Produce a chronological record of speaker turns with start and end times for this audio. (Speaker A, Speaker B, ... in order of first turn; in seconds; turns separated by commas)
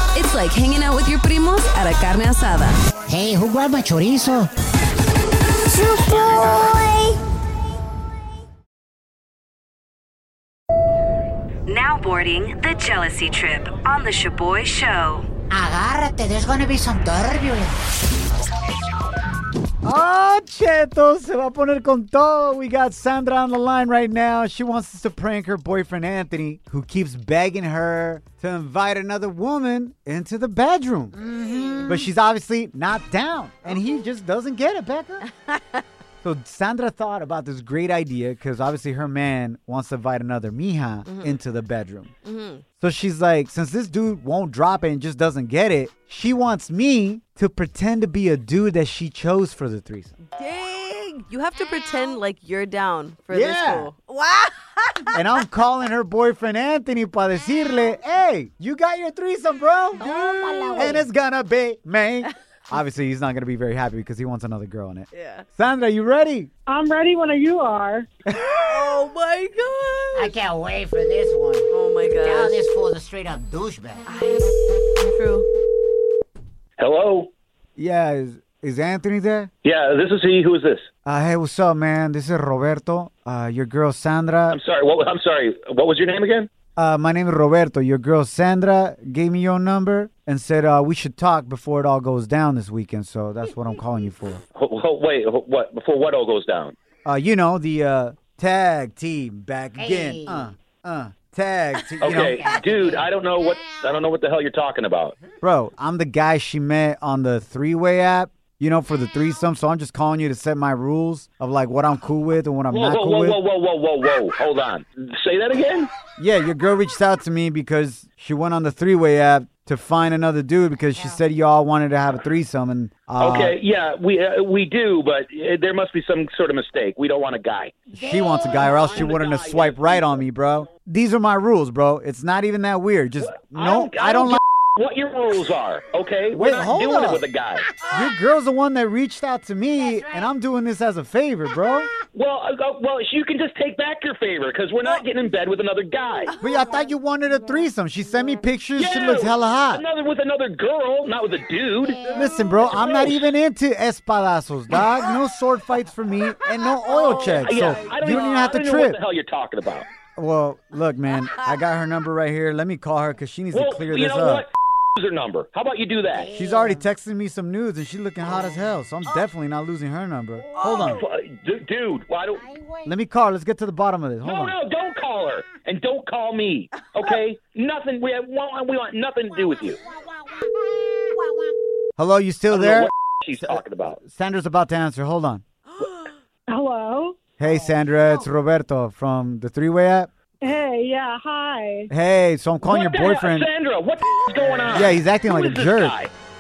Speaker A: 0.1-2.8, Speaker B: 3.1-4.5, Speaker A: 5.8-7.1, Speaker A: 11.7-12.9, Speaker C: 11.7-15.2, Speaker A: 13.7-15.2, Speaker B: 15.5-17.8, Speaker D: 19.8-31.2, Speaker B: 31.1-32.1, Speaker A: 31.3-31.9, Speaker D: 31.9-35.2, Speaker A: 35.3-35.8, Speaker D: 36.2-42.1, Speaker A: 41.1-41.4, Speaker A: 42.2-42.6, Speaker D: 42.8-50.1, Speaker A: 50.3-55.2, Speaker D: 53.3-53.9, Speaker D: 55.1-60.0, Speaker B: 60.0-61.1, Speaker A: 60.0-61.0, Speaker D: 60.8-66.5, Speaker A: 65.1-65.5, Speaker E: 66.7-68.1, Speaker D: 68.3-68.7, Speaker A: 68.6-70.3, Speaker B: 70.1-74.0, Speaker A: 71.7-72.5, Speaker A: 74.1-75.5, Speaker F: 76.8-77.3, Speaker D: 77.8-79.5, Speaker F: 79.6-80.9, Speaker D: 81.0-84.6, Speaker F: 84.5-86.5, Speaker D: 86.8-94.4, Speaker F: 94.6-96.8, Speaker D: 97.1-102.4, Speaker B: 99.8-100.5, Speaker F: 102.0-105.2, Speaker B: 102.1-103.1, Speaker D: 105.4-113.4, Speaker F: 112.7-115.9, Speaker D: 116.2-123.5, Speaker B: 120.9-121.2, Speaker F: 123.2-127.8, Speaker B: 127.9-129.1, Speaker D: 128.0-134.4, Speaker F: 128.7-130.2, Speaker F: 133.2-137.7, Speaker D: 136.3-137.2, Speaker B: 137.7-138.1, Speaker D: 137.9-141.9, Speaker B: 139.8-140.3, Speaker B: 141.5-141.9, Speaker F: 142.1-146.3, Speaker B: 146.3-146.9, Speaker D: 146.4-149.8, Speaker F: 148.8-152.2, Speaker B: 151.8-152.8, Speaker D: 152.1-159.0, Speaker F: 152.8-153.2, Speaker A: 156.9-158.2, Speaker F: 157.1-159.9, Speaker D: 160.2-164.4, Speaker F: 163.5-166.3, Speaker B: 166.1-166.9, Speaker D: 166.3-171.0, Speaker F: 170.6-172.4, Speaker B: 170.7-171.0, Speaker B: 172.3-172.9, Speaker D: 172.8-174.6, Speaker F: 174.2-179.8, Speaker B: 179.3-181.6, Speaker D: 182.0-182.9, Speaker F: 182.5-184.0, Speaker D: 183.5-185.4, Speaker E: 186.5-187.2, Speaker D: 187.4-190.1, Speaker E: 190.4-191.9, Speaker D: 191.9-193.5, Speaker F: 192.7-196.1, Speaker D: 194.7-195.9